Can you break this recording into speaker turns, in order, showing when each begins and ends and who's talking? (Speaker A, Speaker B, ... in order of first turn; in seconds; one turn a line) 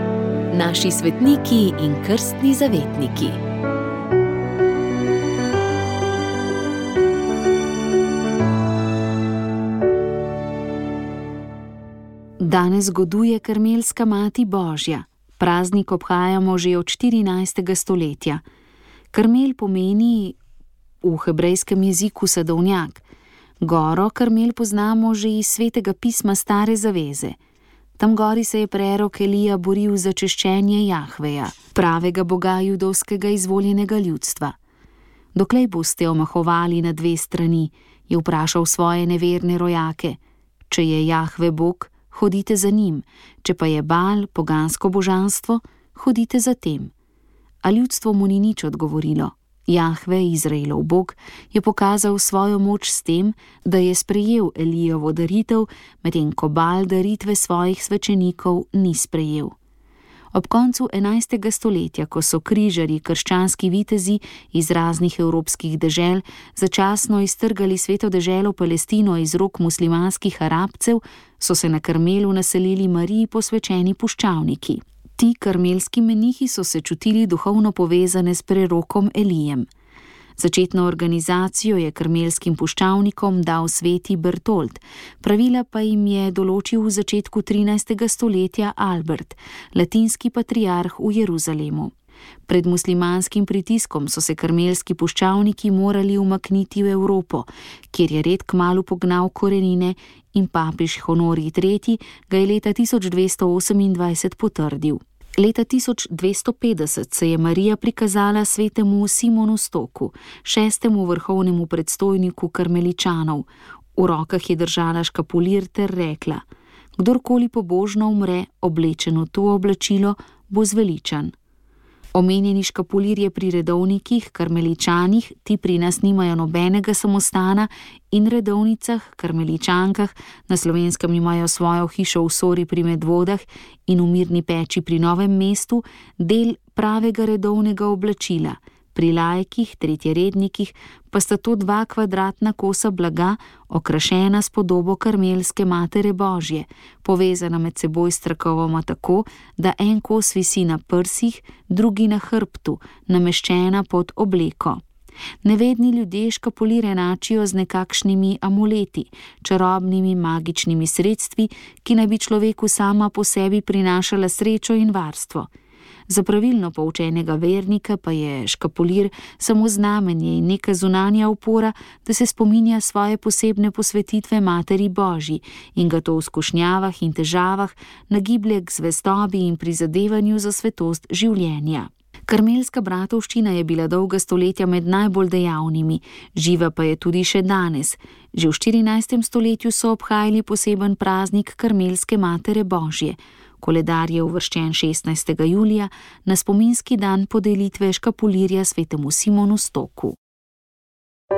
Speaker A: 0.5-3.4
Speaker A: 12.4-18.4
Speaker A: 19.1-20.4
Speaker A: 21.0-23.0
Speaker A: 23.6-27.4
Speaker A: 28.0-34.5
Speaker A: 35.3-40.2
Speaker A: 40.7-46.9
Speaker A: 47.6-59.5
Speaker A: 60.3-79.7
Speaker A: 80.4-91.9
Speaker A: 92.5-116.4
Speaker A: 117.0-121.3
Speaker A: 122.1-154.8
Speaker A: 155.4-165.5
Speaker A: 166.1-200.2